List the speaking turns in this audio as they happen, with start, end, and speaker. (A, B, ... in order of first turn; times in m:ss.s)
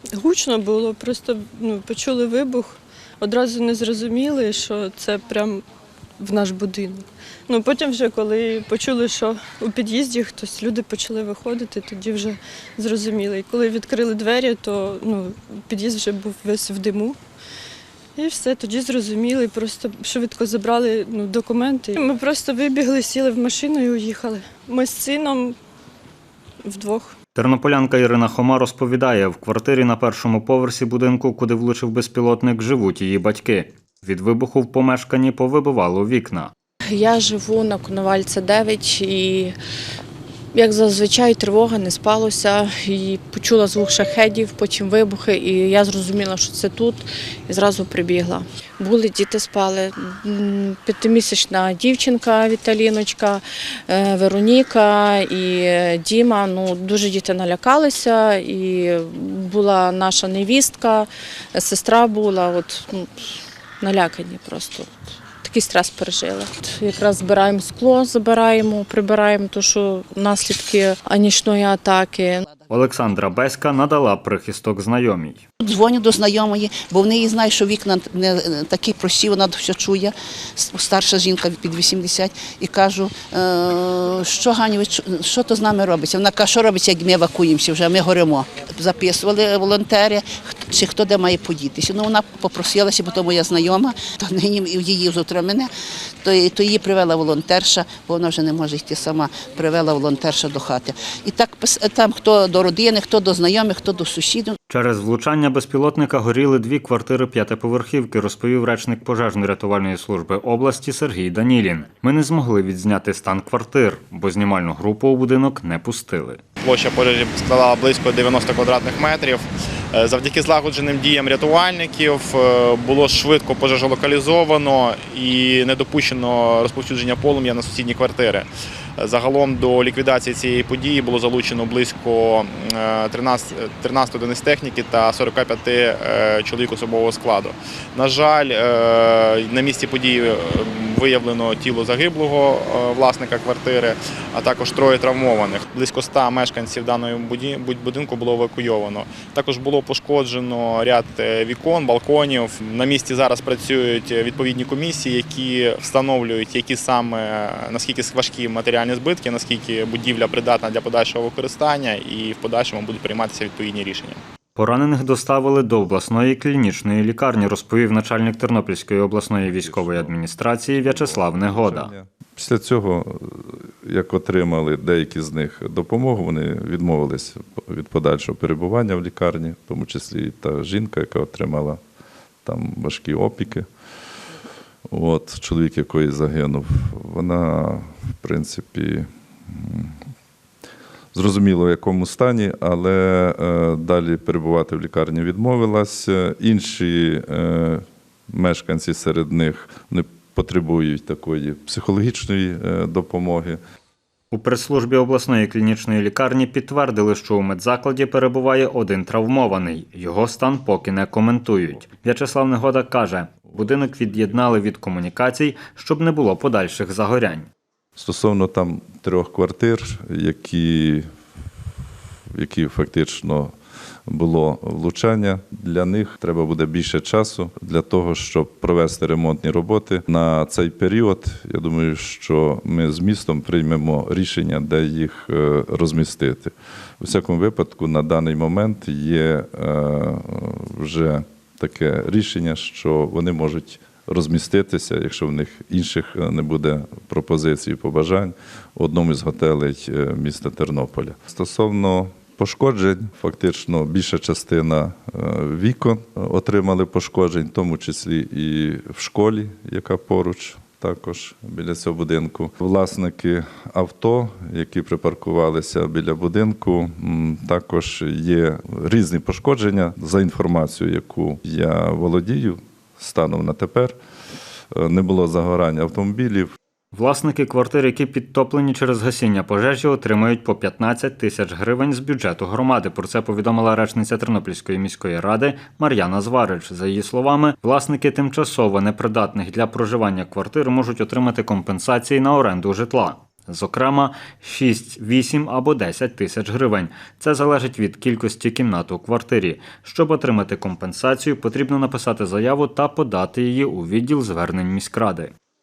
0:00.1-0:05.6 A
0:06.2-0:17.2 A
0:18.2-0:25.6 A
0:26.6-0:27.2 A
0:27.4-0:36.5 B
0:36.9-0:39.5 C
0:40.5-1:03.1 C
1:03.8-1:04.9 C
1:05.4-1:12.4 C
1:12.7-1:15.4 B
1:15.6-1:35.7 D
1:36.2-1:44.6 D
1:44.7-1:56.4 B
1:56.6-2:08.5 E
2:09.0-2:44.2 E
2:44.6-2:51.9 B
2:49.4-2:50.2 F
2:50.8-3:01.8 F
3:02.4-3:03.7 F
3:04.9-3:09.9 F
3:11.1-3:23.6 F
3:24.3-3:37.5 B
3:38.0-3:41.0 F
3:42.3-3:43.5 F
3:44.1-4:34.0 F
4:34.8-4:36.6 F
4:36.9-5:05.3 B